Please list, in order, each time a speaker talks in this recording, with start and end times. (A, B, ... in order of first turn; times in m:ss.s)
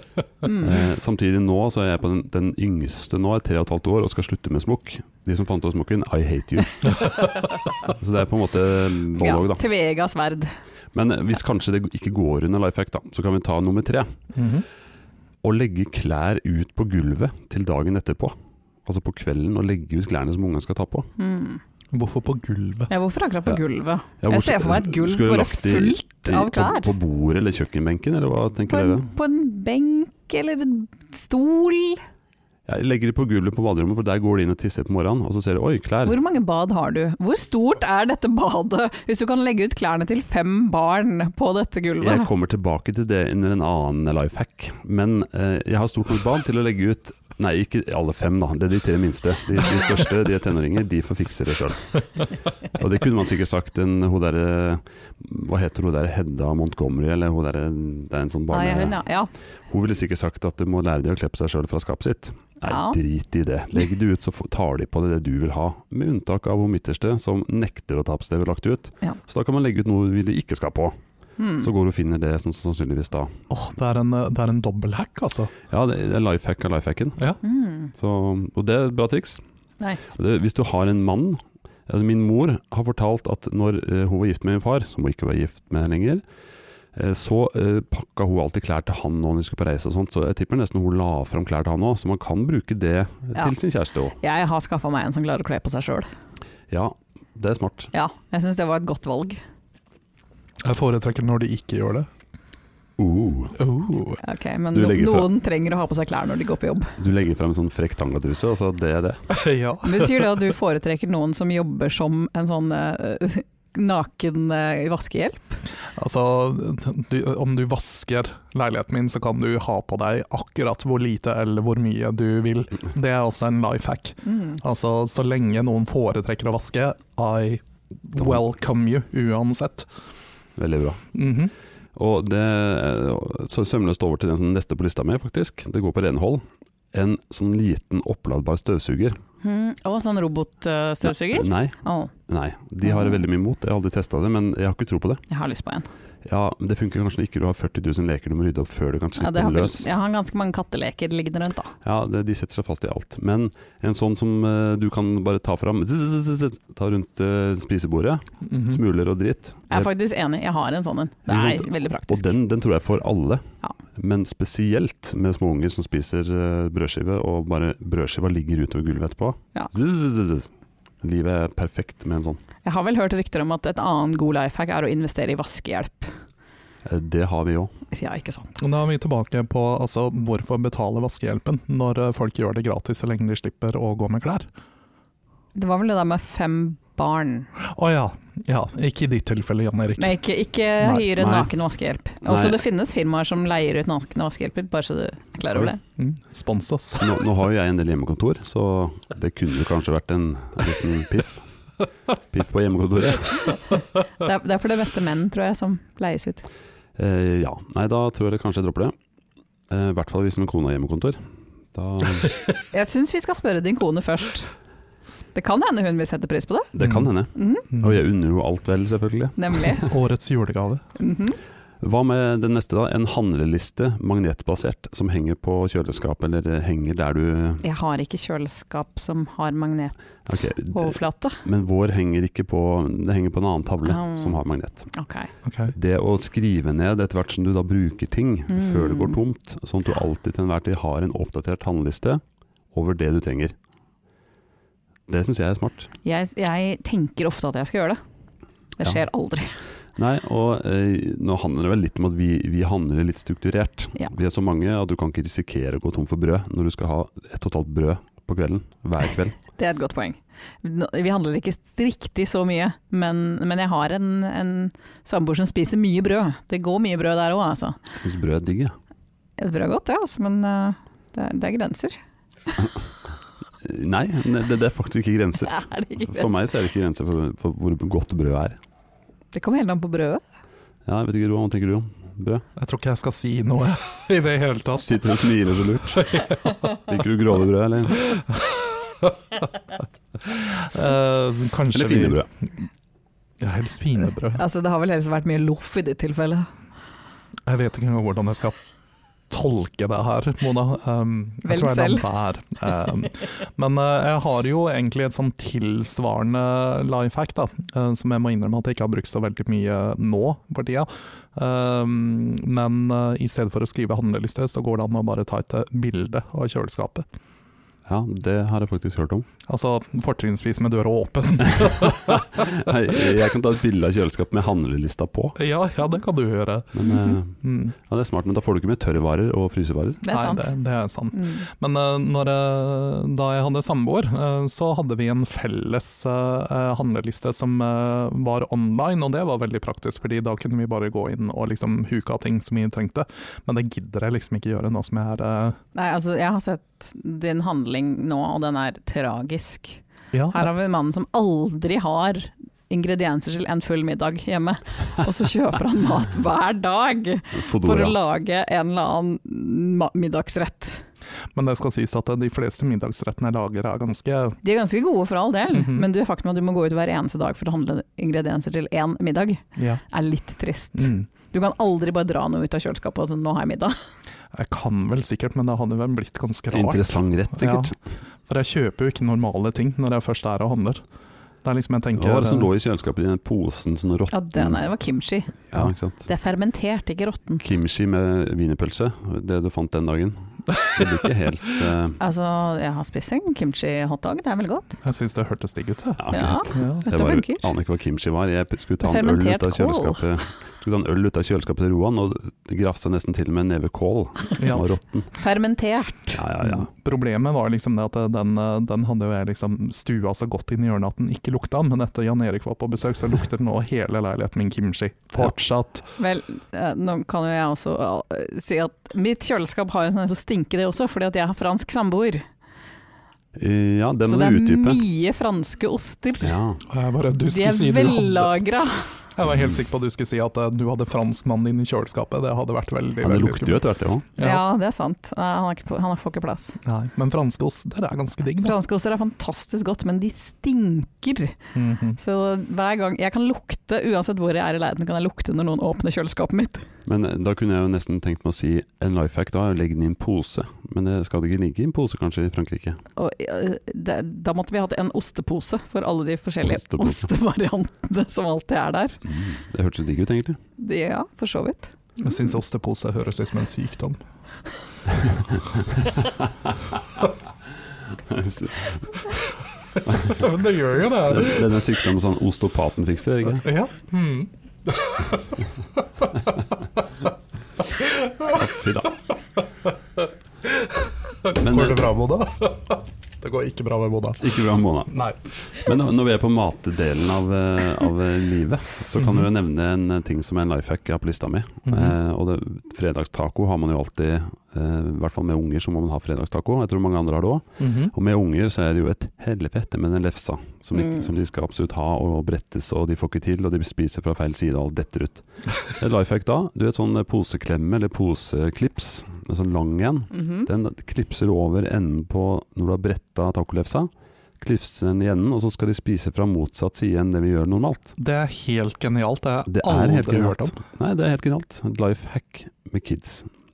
0:00.4-0:00.8 A
0:00.6-0:09.6 B
0:09.2-0:10.5 A
0:10.9-0:14.2 B
0:14.4-0:14.7 C
0:15.4-0:18.4 B
0:18.9-0:21.1 B
0:21.2-0:21.6 A
0:21.9-0:22.9 C
0:22.9-0:26.9 A
0:24.2-0:29.1 B
0:28.7-0:32.0 A
0:32.7-0:36.2 B
0:36.0-0:42.3 A
0:42.0-0:52.1 B
0:52.7-0:59.0 B
0:58.5-0:59.3 A
0:59.7-1:11.0 B
1:02.6-1:03.0 A
1:11.4-1:11.7 A
1:11.6-1:13.3 B
1:13.5-1:15.5 C
1:15.7-1:17.3 B
1:17.4-1:17.9 A
1:17.9-1:19.4 B
1:19.8-1:20.2 A
1:20.2-1:26.2 B
1:27.0-1:34.2 B
1:34.2-1:36.1 A
1:36.7-1:37.9 B
1:37.9-1:39.4 A
1:40.6-1:42.1 C
1:43.0-1:43.6 B
1:43.6-1:44.2 C
1:44.2-1:47.0 A
1:44.7-1:45.3 B
1:47.0-1:49.2 B
1:49.3-1:50.5 C
1:49.8-1:55.6 A
1:56.0-2:09.9 C
2:04.2-2:04.6 A
2:10.6-2:11.1 B
2:11.1-2:11.5 C
2:12.0-2:19.2 B
2:19.4-2:22.1 A
2:21.3-2:21.8 B
2:22.3-2:25.2 B
2:22.9-2:23.2 A
2:25.3-2:25.9 A
2:26.2-2:29.9 B
2:29.2-2:31.7 A
2:31.8-2:39.9 B
2:38.5-2:38.8 C
2:39.7-2:42.3 A
2:41.3-2:50.5 B
2:51.0-2:52.4 B
2:52.6-2:56.2 A
2:56.8-2:57.7 B
2:57.9-2:58.6 A
2:58.6-3:04.5 C
3:05.6-3:07.5 A
3:07.6-3:10.1 C
3:10.0-3:15.8 A
3:10.8-3:11.1 C
3:11.2-3:11.5 B
3:12.2-3:12.6 B
3:16.0-3:17.1 C
3:17.0-3:21.5 B
3:22.2-3:23.6 B
3:24.1-3:26.4 A
3:27.0-3:28.9 B
3:29.7-3:31.2 B
3:31.7-3:32.3 B
3:32.7-3:34.5 A
3:35.3-3:36.7 A
3:36.7-3:39.9 B
3:36.8-3:37.1 C
3:37.4-3:37.7 A
3:39.4-3:39.9 A
3:39.9-3:40.8 C
3:41.0-3:41.4 A
3:41.8-3:47.6 B
3:47.6-3:51.4 A
3:50.3-3:54.9 B
3:53.8-3:55.3 A
3:55.4-3:55.7 C
3:55.7-4:02.2 B
3:58.5-3:59.2 A
4:02.7-4:03.6 B
4:05.1-4:05.9 B
4:06.0-4:08.0 A
4:08.8-4:09.6 A
4:10.0-4:19.4 B
4:19.6-4:27.8 A
4:27.9-4:28.8 B
4:29.4-4:32.0 A
4:33.6-4:38.6 B
4:35.5-4:36.5 A
4:39.3-4:40.2 A
4:40.9-4:42.4 B
4:42.6-4:45.3 C
4:44.8-4:48.1 B
4:46.0-4:46.3 C
4:48.1-4:48.5 C
4:50.2-4:52.2 C
4:51.7-4:52.3 B
4:53.4-4:54.4 C
4:54.3-4:56.5 A
4:57.5-4:58.6 C
4:59.3-5:17.1 C
5:01.4-5:02.1 A
5:17.9-5:19.3 B
5:19.5-5:22.4 C
5:21.6-5:25.4 B
5:25.4-5:26.9 C
5:26.7-5:30.0 B
5:27.4-5:27.7 C
5:30.0-5:30.5 A
5:30.1-5:45.6 C
5:31.1-5:31.4 A
5:45.8-6:00.8 A
5:50.1-5:50.5 C
5:57.3-5:58.0 B
6:01.3-6:04.4 C
6:04.4-6:13.8 A
6:05.5-6:05.9 C
6:09.6-6:09.8 C
6:10.8-6:11.1 C
6:14.3-6:17.7 C
6:16.5-6:17.8 B
6:18.3-6:20.8 C
6:21.4-6:22.5 C
6:22.0-6:24.6 B
6:24.1-6:25.5 A
6:25.5-6:26.1 B
6:26.0-6:27.5 A
6:27.4-6:32.0 B
6:32.0-6:34.8 A
6:34.8-6:36.9 C
6:36.0-6:45.1 B
6:36.1-6:37.5 A
6:38.8-6:40.0 A
6:44.4-6:44.7 C
6:45.2-6:46.2 A
6:46.2-6:46.7 B
6:46.4-6:55.9 C
6:56.0-7:02.2 A
7:03.4-7:04.8 B
7:04.1-7:06.4 A
7:06.2-7:06.6 B
7:06.7-7:08.4 C
7:07.3-7:09.0 A
7:09.2-7:13.6 C
7:13.0-7:14.1 B
7:14.2-7:14.4 C
7:14.2-7:16.6 A
7:16.6-7:18.6 C
7:18.4-7:21.4 A
7:21.6-7:22.0 C
7:22.0-7:26.7 A
7:26.8-7:32.8 B
7:33.0-7:39.0 A
7:36.4-7:37.1 B
7:39.0-7:40.4 B
7:40.6-7:41.7 A
7:42.0-7:44.0 C
7:45.0-7:46.8 B
7:47.9-7:49.0 B
7:49.9-7:50.3 B
7:50.1-7:51.7 C
7:51.0-7:53.5 B
7:53.4-7:56.8 C
7:57.6-7:58.4 C
7:58.3-7:59.0 B
7:59.6-8:04.4 C
8:01.4-8:01.9 B
8:04.2-8:33.9 B
8:04.9-8:05.2 C
8:09.0-8:09.3 C
8:11.7-8:12.0 C
8:17.6-8:17.9 C
8:30.1-8:30.5 A
8:34.4-8:37.9 B
8:38.0-8:40.6 C
8:39.5-8:43.3 B